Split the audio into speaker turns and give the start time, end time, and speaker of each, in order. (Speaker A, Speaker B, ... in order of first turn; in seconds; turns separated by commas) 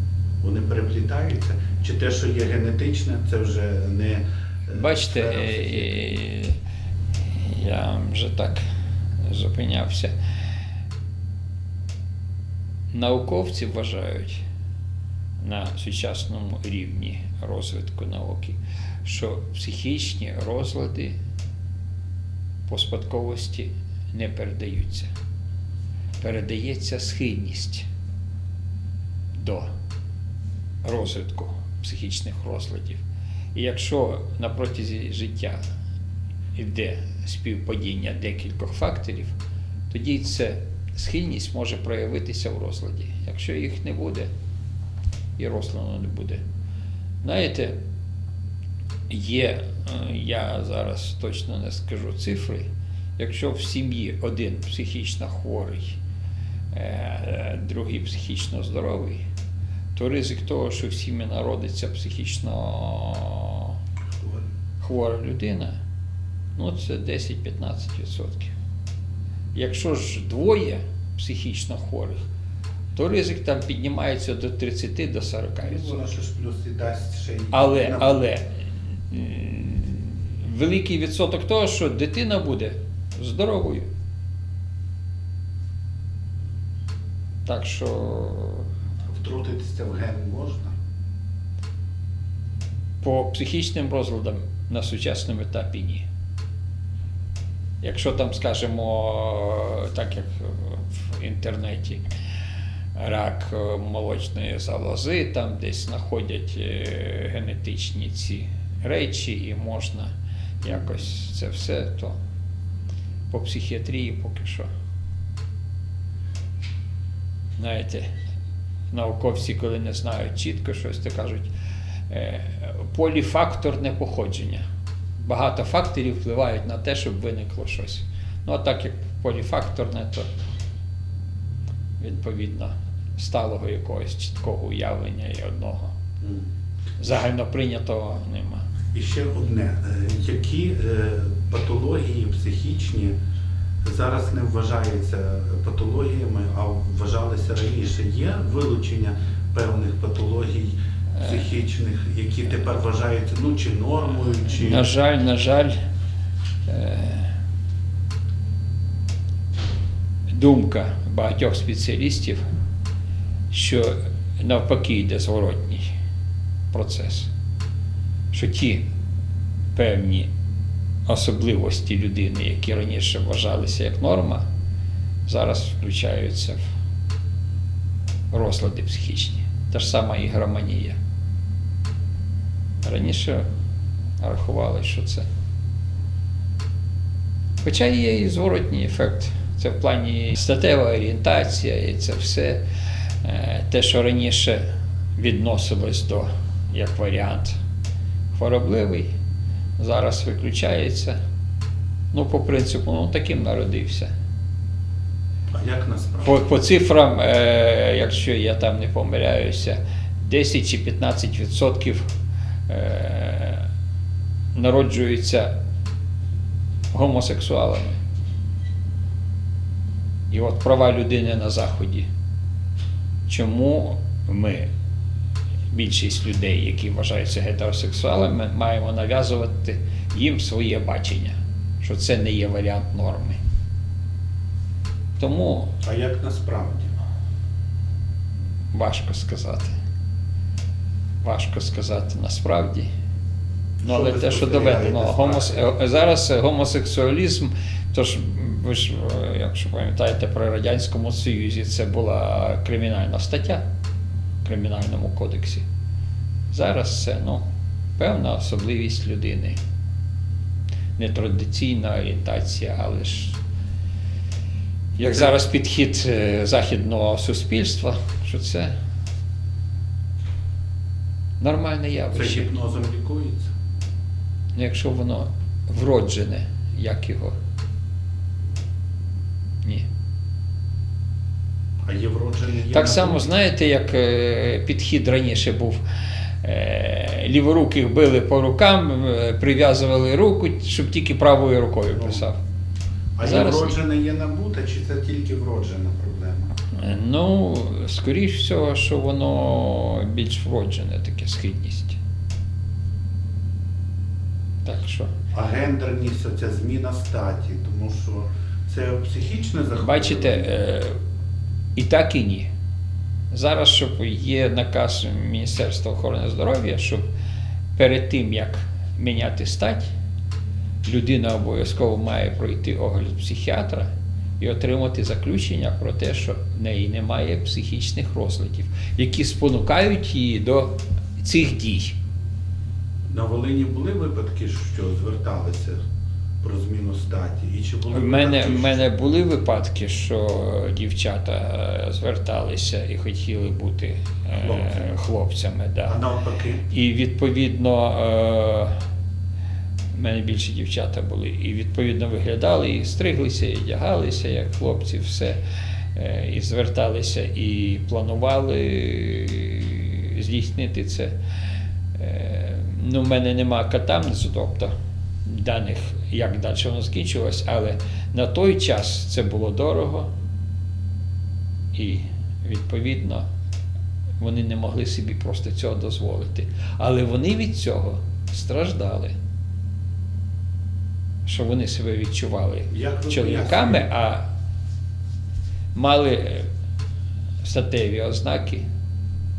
Speaker A: 0.4-6.2, Speaker B: 4.7-6.5, Speaker B: 7.4-8.6, Speaker B: 9.2-10.1, Speaker B: 12.9-14.4, Speaker B: 15.4-21.2, Speaker B: 22.7-25.1, Speaker B: 26.2-27.9, Speaker B: 29.4-29.7, Speaker B: 30.8-33.0, Speaker B: 33.5-35.6, Speaker B: 36.5-39.3, Speaker B: 39.9-44.3, Speaker B: 45.4-46.4, Speaker B: 47.2-47.8, Speaker B: 49.1-52.7, Speaker B: 53.2-56.0, Speaker B: 56.7-59.2, Speaker B: 60.0-63.8, Speaker A: 64.2-64.5, Speaker B: 64.8-65.7, Speaker B: 66.5-68.5, Speaker B: 69.5-72.2, Speaker B: 72.9-76.0, Speaker A: 75.6-78.3, Speaker B: 77.5-78.5, Speaker B: 79.1-83.9, Speaker B: 87.5-88.7, Speaker A: 89.1-90.8, Speaker B: 93.0-96.0, Speaker B: 97.8-102.0, Speaker B: 102.9-110.1, Speaker B: 110.6-112.2, Speaker B: 113.3-114.7, Speaker B: 117.6-118.1, Speaker B: 118.9-121.5, Speaker B: 122.1-124.6, Speaker B: 125.2-130.3, Speaker B: 132.0-135.9, Speaker A: 136.2-136.5, Speaker B: 137.0-138.7, Speaker A: 138.9-143.2, Speaker A: 143.8-154.9, Speaker B: 151.2-151.5, Speaker B: 154.4-155.8, Speaker B: 156.7-157.3, Speaker B: 160.3-162.4, Speaker B: 163.5-165.9, Speaker B: 166.7-167.3, Speaker B: 168.3-168.8, Speaker B: 169.8-170.3, Speaker B: 171.1-174.4, Speaker B: 175.3-176.6, Speaker B: 178.3-181.0, Speaker B: 182.8-183.4, Speaker B: 184.2-185.3, Speaker B: 187.6-192.6, Speaker B: 193.2-194.6, Speaker B: 195.2-197.6, Speaker B: 198.3-199.1, Speaker B: 199.8-201.2, Speaker B: 202.1-204.1, Speaker A: 205.5-206.4, Speaker B: 206.2-212.0, Speaker B: 212.7-213.7, Speaker B: 214.6-215.5, Speaker B: 216.9-218.0, Speaker B: 220.3-222.1, Speaker B: 223.3-224.7, Speaker B: 225.7-233.4, Speaker B: 235.2-235.7, Speaker A: 235.8-236.9, Speaker B: 238.7-239.7, Speaker B: 241.2-242.9, Speaker A: 243.8-245.6, Speaker B: 243.8-253.6, Speaker B: 254.4-255.7, Speaker B: 256.5-257.4, Speaker B: 258.0-259.6, Speaker B: 261.0-263.4, Speaker B: 265.0-268.7, Speaker A: 265.0-265.3, Speaker B: 271.4-272.5, Speaker A: 272.1-273.5, Speaker B: 274.5-277.3, Speaker A: 281.9-283.3, Speaker B: 282.7-285.8, Speaker B: 286.4-292.4, Speaker A: 291.9-292.2, Speaker A: 293.2-296.5, Speaker B: 293.2-293.8, Speaker B: 296.7-302.0, Speaker B: 304.6-305.1, Speaker A: 305.3-310.5, Speaker B: 309.8-310.9, Speaker B: 311.8-312.5, Speaker B: 313.3-317.0, Speaker B: 317.8-319.9, Speaker B: 320.8-331.9, Speaker A: 333.1-335.8, Speaker A: 336.4-339.1, Speaker B: 337.9-346.0, Speaker A: 344.4-344.9, Speaker A: 345.9-346.6, Speaker B: 346.7-348.7, Speaker B: 349.9-355.4, Speaker B: 355.9-361.1, Speaker B: 361.9-364.7, Speaker B: 365.2-370.1, Speaker B: 371.7-373.2, Speaker B: 374.2-379.1, Speaker B: 381.2-384.2, Speaker A: 382.7-383.9, Speaker B: 385.7-386.5, Speaker B: 387.4-388.6